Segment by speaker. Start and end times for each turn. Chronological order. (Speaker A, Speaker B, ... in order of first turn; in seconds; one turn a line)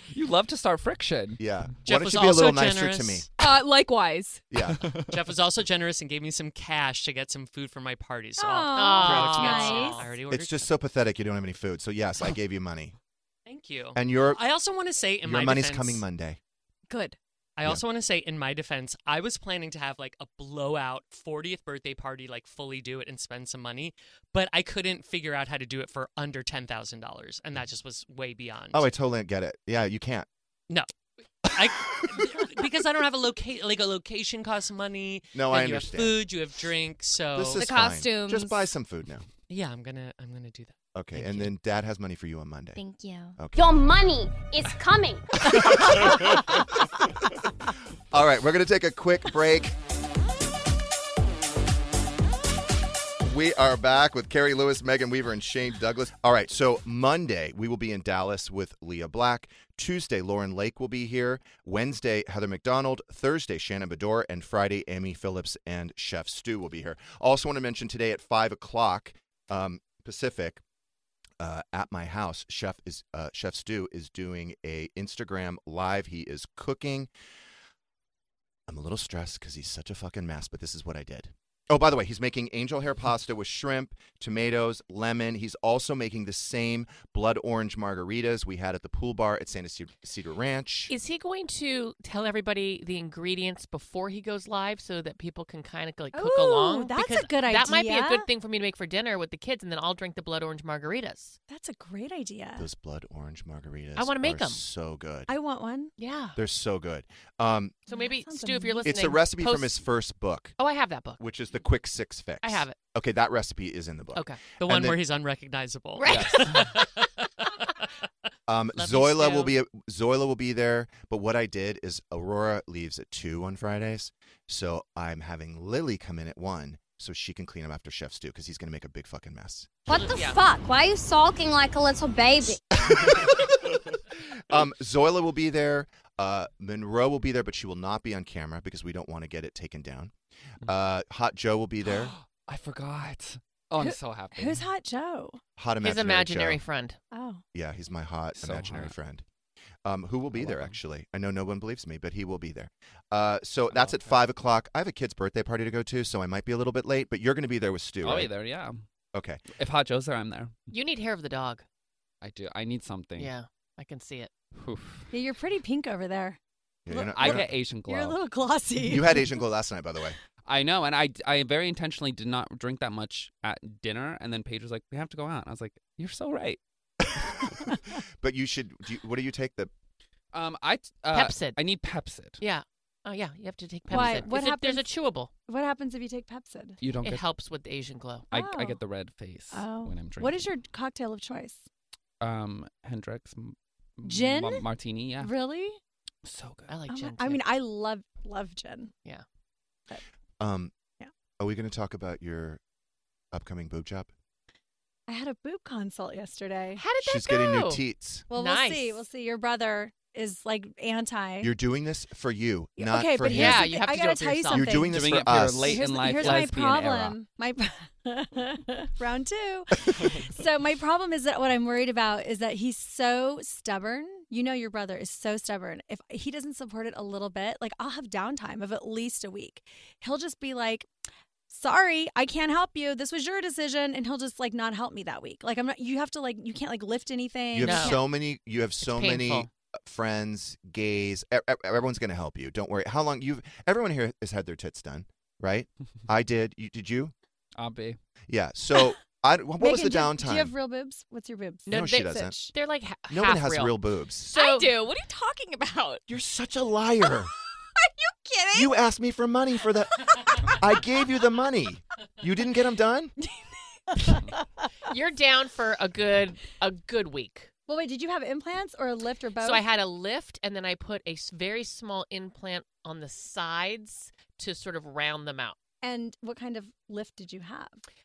Speaker A: 0.1-1.4
Speaker B: 1.4-3.2
Speaker C: 1.9-3.3
Speaker D: 3.4-4.4
Speaker B: 4.5-4.8
Speaker A: 4.8-5.1
Speaker C: 5.1-10.7
Speaker E: 8.4-10.0
Speaker F: 8.7-10.1
Speaker B: 10.3-12.9
Speaker C: 13.4-16.0
Speaker B: 13.9-14.4
Speaker B: 15.2-16.4
Speaker D: 16.9-17.1
Speaker C: 17.6-28.9
Speaker B: 28.7-30.3
Speaker C: 31.4-37.6
Speaker B: 31.6-32.0
Speaker B: 35.3-36.2
Speaker B: 37.4-39.2
Speaker D: 37.6-38.7
Speaker C: 39.5-41.5
Speaker B: 40.9-42.8
Speaker D: 42.8-43.4
Speaker B: 43.4-43.7
Speaker G: 43.5-46.4
Speaker B: 45.4-46.8
Speaker B: 48.1-49.8
Speaker B: 53.2-70.6
Speaker B: 71.4-77.1
Speaker B: 78.7-90.9
Speaker F: 90.9-101.4
Speaker E: 96.1-98.3
Speaker E: 101.5-102.7
Speaker B: 102.6-105.3
Speaker F: 104.0-104.6
Speaker E: 105.3-105.9
Speaker F: 106.0-106.4
Speaker B: 106.4-107.8
Speaker F: 107.9-109.8
Speaker E: 107.9-109.2
Speaker B: 108.8-110.6
Speaker F: 110.6-111.2
Speaker B: 111.2-115.0
Speaker F: 112.4-112.8
Speaker F: 114.1-114.4
Speaker C: 114.6-117.0
Speaker F: 116.0-116.8
Speaker B: 118.5-129.8
Speaker F: 118.7-119.5
Speaker F: 129.9-130.4
Speaker G: 129.9-133.1
Speaker B: 132.7-133.8
Speaker B: 134.3-142.1
Speaker A: 141.8-144.7
Speaker E: 143.8-145.4
Speaker B: 145.6-146.6
Speaker F: 145.8-147.0
Speaker E: 147.1-147.4
Speaker B: 147.5-149.2
Speaker A: 148.3-148.9
Speaker B: 149.8-158.3
Speaker A: 150.3-150.8
Speaker A: 153.7-154.2
Speaker A: 158.0-158.8
Speaker B: 159.1-159.4
Speaker A: 159.5-160.5
Speaker F: 160.7-161.6
Speaker A: 162.2-163.3
Speaker F: 163.2-164.3
Speaker A: 164.6-165.1
Speaker E: 165.1-166.4
Speaker B: 166.9-167.5
Speaker E: 166.9-169.2
Speaker A: 167.1-168.2
Speaker B: 168.8-170.2
Speaker A: 170.4-176.6
Speaker B: 178.2-179.7
Speaker A: 180.3-182.4
Speaker F: 181.1-181.6
Speaker F: 182.4-185.3
Speaker A: 183.9-184.3
Speaker E: 183.9-186.8
Speaker A: 186.8-187.2
Speaker F: 187.0-188.3
Speaker A: 188.3-190.4
Speaker E: 188.3-188.8
Speaker E: 189.5-191.7
Speaker A: 192.2-195.3
Speaker E: 194.0-194.7
Speaker E: 195.2-195.8
Speaker A: 196.2-196.7
Speaker F: 196.7-197.4
Speaker E: 196.9-198.9
Speaker B: 200.4-200.7
Speaker B: 201.4-202.6
Speaker B: 203.3-204.1
Speaker E: 205.1-206.8
Speaker F: 206.8-209.0
Speaker B: 207.0-208.2
Speaker E: 208.3-211.5
Speaker B: 211.4-213.7
Speaker E: 212.8-230.9
Speaker F: 213.3-214.9
Speaker B: 214.5-216.4
Speaker A: 214.9-217.2
Speaker E: 231.5-238.0
Speaker B: 237.5-247.1
Speaker F: 237.6-238.1
Speaker F: 238.8-239.5
Speaker A: 247.6-248.0
Speaker B: 248.3-250.5
Speaker E: 249.6-252.5
Speaker F: 251.7-253.8
Speaker B: 251.7-252.4
Speaker B: 253.1-254.3
Speaker D: 254.3-256.0
Speaker F: 254.3-254.7
Speaker B: 256.1-257.3
Speaker E: 258.2-258.6
Speaker B: 258.5-263.1
Speaker E: 263.9-264.2
Speaker A: 264.1-264.4
Speaker F: 264.9-267.5
Speaker E: 267.7-269.6
Speaker F: 269.4-275.6
Speaker E: 275.8-277.8